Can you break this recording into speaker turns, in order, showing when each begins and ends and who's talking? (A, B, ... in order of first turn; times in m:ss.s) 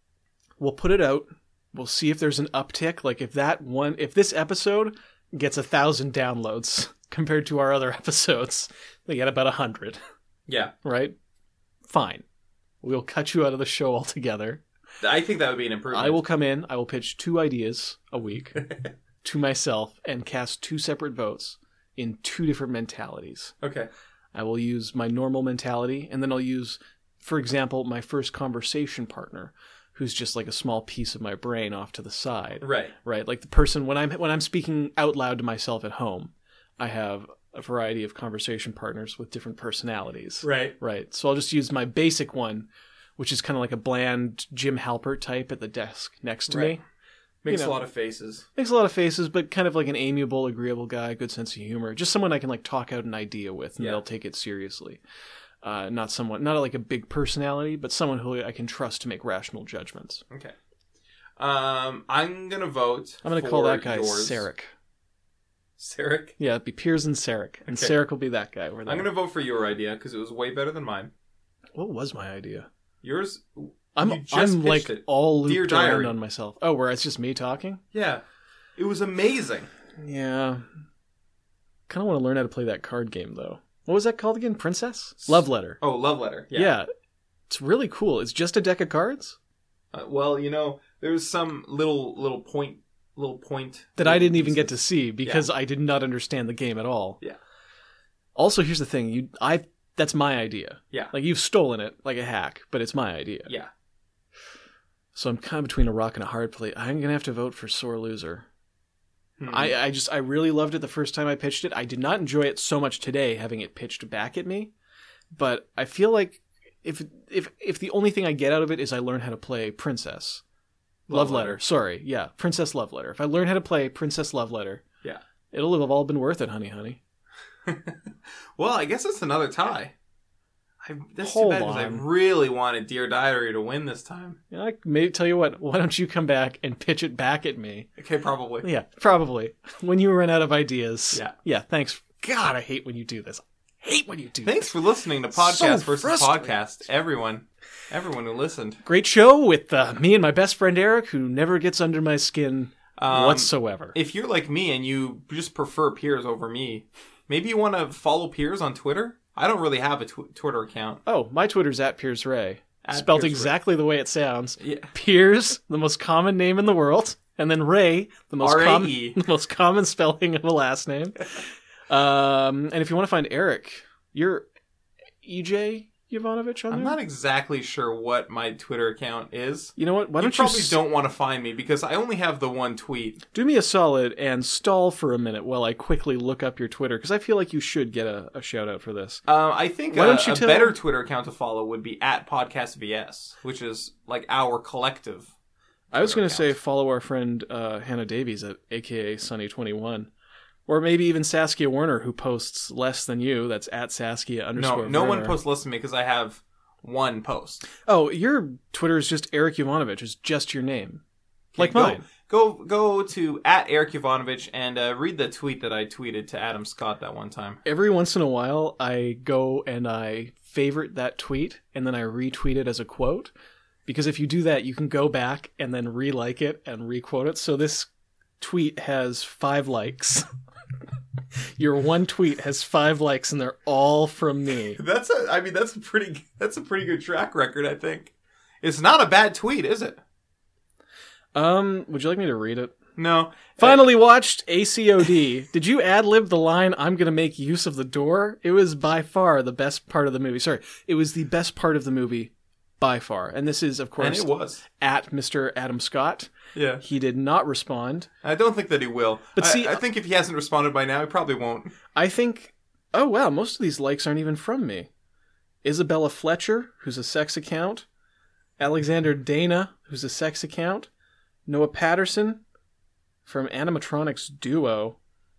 0:00.6-0:10.0 A
0:10.5-0:10.7 B
0:10.8-0:11.1 A
0:11.9-0:12.2 A
0:12.8-0:14.6 A
0:15.0-0:16.2 B
0:15.9-0:18.6 A
0:18.6-0:18.9 B
0:19.2-0:23.5 A
0:23.6-0:23.9 B
0:24.3-0:46.8 A
0:32.6-0:32.9 B
0:40.4-0:40.8 B
0:46.5-0:46.8 B
0:47.4-0:48.4 B
0:47.5-0:47.7 A
0:48.6-0:55.0 A
0:55.6-1:00.2 A
1:01.4-1:04.4 B
1:03.2-1:04.7 A
1:05.8-1:06.3 B
1:06.4-1:09.1 A
1:07.7-1:08.0 B
1:08.8-1:11.1 B
1:11.8-1:12.7 A
1:13.0-1:16.1 B
1:13.9-1:17.8 A
1:17.9-1:18.2 B
1:18.8-1:19.7 B
1:20.0-1:20.6 A
1:21.9-1:25.8 A
1:25.2-1:26.8 B
1:26.5-1:26.9 A
1:27.5-1:29.4 A
1:29.9-1:35.5 B
1:34.0-1:37.2 A
1:38.4-1:43.5 A
1:45.1-1:48.4 A
1:49.4-1:49.8 B
1:49.5-1:54.7 A
1:55.4-2:00.4 A
2:01.1-2:01.6 B
2:01.1-2:04.8 A
2:05.5-2:07.0 A
2:07.7-2:09.9 B
2:10.8-2:14.4 B
2:11.2-2:12.0 A
2:14.5-2:17.9 A
2:18.0-2:18.7 B
2:18.6-2:24.7 A
2:24.4-2:28.8 B
2:25.3-2:26.6 A
2:28.8-2:33.9 A
2:33.0-2:41.0 B
2:41.0-2:54.4 A
2:42.8-2:43.5 B
2:44.6-2:44.9 B
2:48.4-2:49.2 B
2:55.2-2:57.0 A
2:56.7-3:03.2 B
2:59.8-3:00.8 A
3:03.3-3:09.2 A
3:09.3-3:15.3 B
3:09.9-3:10.8 A
3:15.9-3:16.6 B
3:15.9-3:20.1 A
3:20.7-3:25.4 A
3:24.6-3:27.6 B
3:27.8-3:31.0 A
3:31.5-3:37.6 B
3:31.6-3:32.0 A
3:37.6-3:43.3 A
3:43.8-3:47.9 A
3:48.4-3:50.3 A
3:51.6-3:54.8 A
3:54.7-4:00.0 B
4:01.3-4:02.7 A
4:03.0-4:03.9 B
4:03.6-4:18.1 A
4:14.0-4:14.6 B
4:16.5-4:16.8 B
4:18.2-4:21.7 B
4:19.4-4:19.8 A
4:21.9-4:24.9 A
4:25.6-4:27.8 A
4:28.6-4:30.9 A
4:31.5-4:32.4 A
4:33.2-4:35.0 A